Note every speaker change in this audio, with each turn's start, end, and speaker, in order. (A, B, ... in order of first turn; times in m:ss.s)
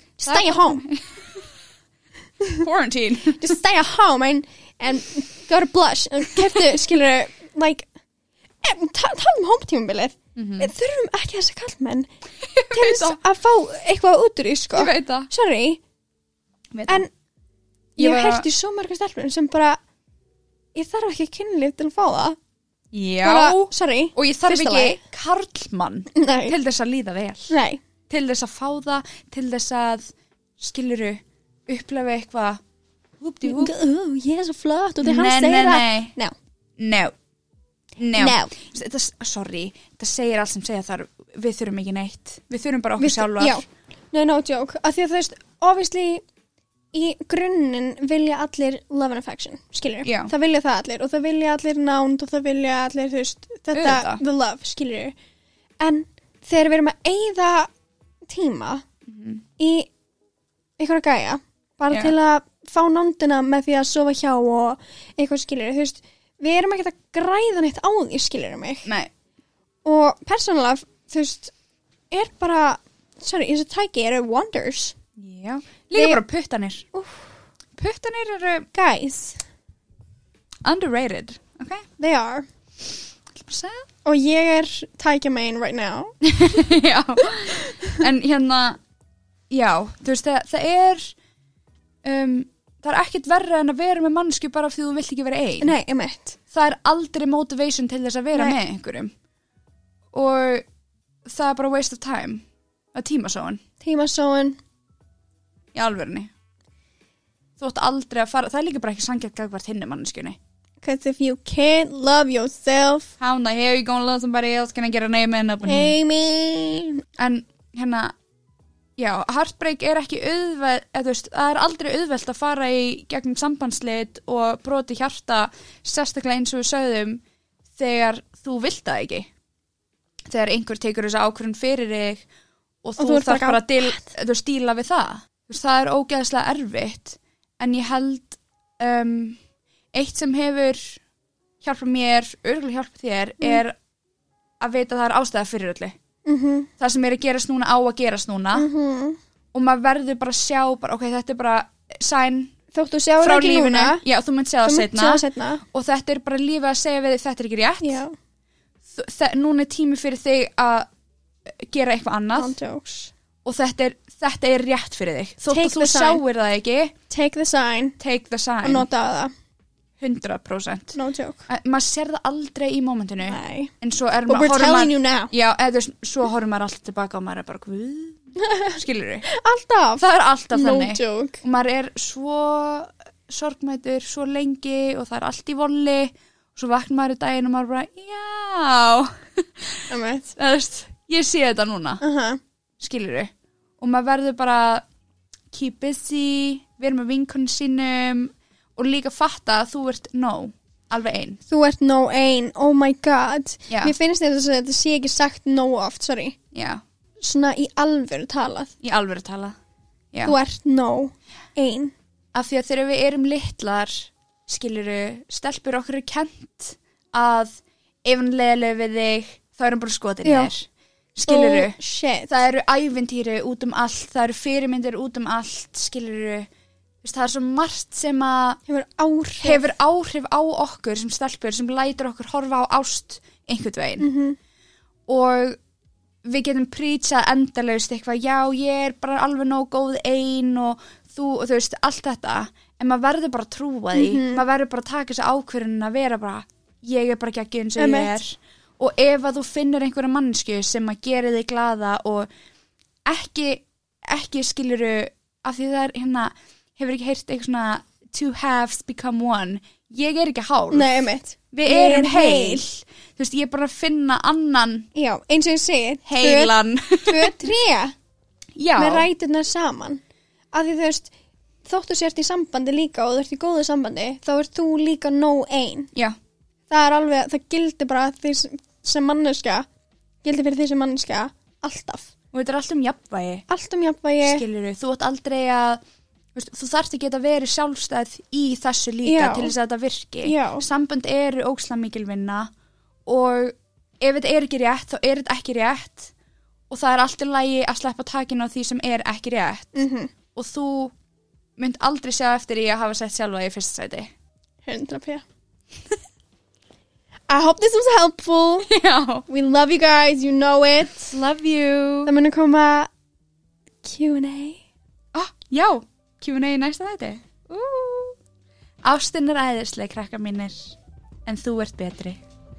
0:00.2-0:00.8 A
0:00.2-0:01.5 B
0:02.4-0:02.6 A
0:02.5-0:03.6 B
0:03.4-0:07.9 A
0:06.4-0:06.7 B
0:08.6-0:12.1 A
0:10.4-0:10.7 B
0:12.4-0:13.2 B
0:12.7-0:15.8 A
0:14.7-0:15.3 B
0:16.7-0:17.0 B
0:18.0-0:18.4 B
0:18.0-0:19.8 A
0:20.7-0:22.4 A
0:22.9-0:27.5 B
0:23.2-0:25.0 A
0:26.1-0:26.6 A
0:27.5-0:27.8 A
0:28.1-0:32.6 B
0:33.2-0:33.7 B
0:33.4-0:36.3 A
0:35.0-0:36.1 B
0:36.8-0:37.1 B
0:38.0-0:43.6 B
0:38.2-0:38.5 A
0:43.0-0:46.2 A
0:46.9-0:55.1 A
0:50.0-0:50.3 B
0:53.7-0:54.2 B
0:55.8-0:57.7 A
0:58.3-0:58.8 A
0:59.1-0:59.4 B
0:59.6-0:59.9 A
1:00.8-1:08.9 A
1:08.8-1:09.1 B
1:09.8-1:11.5 A
1:12.1-1:14.9 A
1:15.2-1:16.8 B
1:16.9-1:17.3 A
1:17.7-1:18.7 B
1:18.7-1:19.4 A
1:20.6-1:21.8 B
1:22.0-1:22.5 A
1:23.3-1:23.8 B
1:24.0-1:26.1 A
1:26.2-1:28.8 B
1:27.2-1:28.0 A
1:29.5-1:31.1 B
1:32.0-1:35.7 B
1:35.6-1:36.4 A
1:36.5-1:39.1 B
1:40.1-1:40.6 B
1:41.2-1:43.6 B
1:43.8-1:44.6 A
1:45.7-1:46.3 B
1:47.6-1:50.4 B
1:50.8-1:53.1 A
1:53.2-1:56.0 B
1:55.6-1:57.0 A
1:57.2-1:58.1 B
1:59.0-2:07.2 B
2:07.7-2:09.3 B
2:10.3-2:12.2 B
2:12.8-2:19.4 B
2:13.0-2:14.1 A
2:19.9-2:21.0 B
2:21.6-2:23.7 B
2:24.6-2:25.9 B
2:26.2-2:26.7 A
2:26.8-2:28.7 B
2:28.5-2:29.2 A
2:29.5-2:32.5 B
2:32.7-2:34.0 A
2:33.2-2:38.0 B
2:34.6-2:35.6 A
2:37.8-2:38.1 A
2:38.9-2:40.9 B
2:41.4-2:42.6 B
2:42.3-2:43.1 A
2:43.4-2:46.9 B
2:45.5-2:46.2 A
2:47.1-2:48.0 A
2:48.0-2:48.9 B
2:48.6-2:49.3 A
2:50.0-2:51.0 B
2:50.9-2:51.5 A
2:51.5-2:59.2 B
2:53.2-2:53.7 A
2:54.3-2:55.3 A
2:59.3-3:01.4 A
3:00.0-3:12.0 B
3:09.9-3:10.3 A
3:12.0-3:12.4 A
3:12.8-3:14.8 B
3:15.5-3:21.4 B
3:21.5-3:26.4 A
3:23.7-3:23.9 B
3:26.5-3:26.8 B
3:27.2-3:28.7 A
3:28.8-3:29.6 B
3:30.2-3:31.9 A
3:32.3-3:41.8 B
3:40.2-3:40.5 A
3:41.2-3:42.3 A
3:42.3-3:46.5 B
3:47.0-3:48.6 B
3:48.7-3:49.7 A
3:49.4-3:54.1 B
3:54.0-3:54.4 A
3:55.1-3:55.6 B
3:56.2-4:12.3 B
4:03.9-4:04.4 A
4:07.8-4:08.2 A
4:13.0-4:20.9 B
4:20.7-4:22.6 A
4:21.5-4:24.9 B
4:24.9-4:27.9 A
4:26.0-4:27.5 B
4:28.6-4:29.1 B
4:28.8-4:30.0 A
4:30.5-4:31.1 A
4:31.6-4:35.9 A
4:36.7-4:39.6 A
4:40.2-4:42.1 A
4:42.3-4:43.4 B
4:43.5-4:44.4 A
4:44.2-4:45.8 B
4:46.3-4:52.5 B
4:49.0-4:49.5 A
4:50.2-4:50.6 A
4:53.0-4:56.1 B
4:56.7-4:59.8 B
4:59.7-5:00.1 A
5:00.3-5:00.9 B
5:01.6-5:04.1 B
5:04.6-5:05.2 A
5:07.3-5:08.7 A
5:08.6-5:09.2 B
5:09.3-5:11.1 A
5:11.1-5:12.1 B
5:12.0-5:12.9 A
5:13.8-5:14.6 A
5:15.1-5:18.2 B
5:18.8-5:22.2 B